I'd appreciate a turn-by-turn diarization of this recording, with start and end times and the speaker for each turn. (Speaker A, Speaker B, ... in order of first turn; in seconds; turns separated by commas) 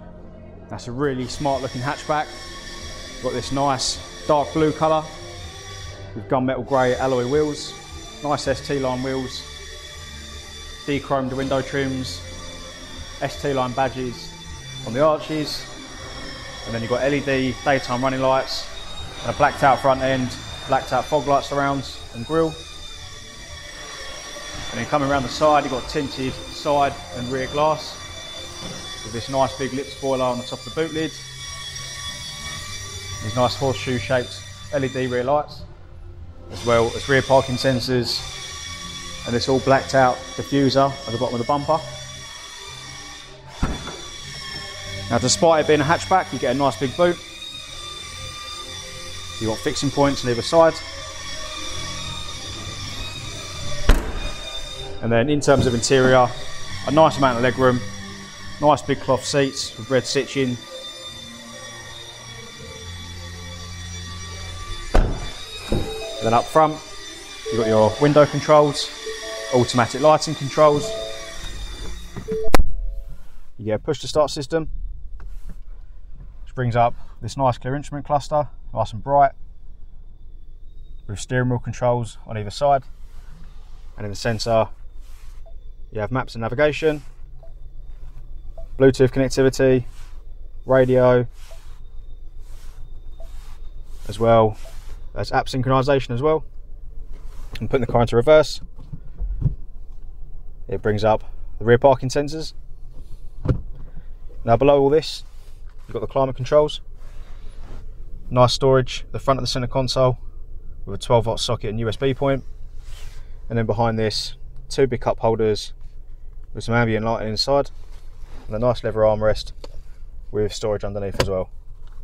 Speaker A: 0.7-2.3, Speaker A: 3.2-5.1, Speaker A: 6.1-9.5, Speaker A: 10.9-12.3, Speaker A: 13.2-15.7, Speaker A: 16.6-22.6, Speaker A: 24.7-28.0, Speaker A: 29.0-31.2, Speaker A: 33.2-35.7, Speaker A: 36.5-38.3, Speaker A: 39.2-41.9, Speaker A: 45.1-47.2, Speaker A: 49.4-50.8, Speaker A: 55.0-56.3, Speaker A: 56.8-57.9, Speaker A: 58.6-60.6, Speaker A: 66.2-66.8, Speaker A: 67.5-69.0, Speaker A: 69.5-71.0, Speaker A: 73.6-74.7, Speaker A: 76.5-79.3, Speaker A: 81.1-82.9, Speaker A: 84.0-84.7, Speaker A: 85.9-87.0, Speaker A: 88.8-89.9, Speaker A: 90.7-91.3, Speaker A: 94.1-94.6, Speaker A: 95.1-96.5, Speaker A: 97.6-98.6, Speaker A: 100.7-102.5, Speaker A: 104.4-105.2, Speaker A: 105.9-106.8, Speaker A: 108.3-110.2, Speaker A: 110.9-112.5, Speaker A: 113.5-115.7, Speaker A: 116.5-117.7, Speaker A: 118.5-119.5, Speaker A: 120.3-121.5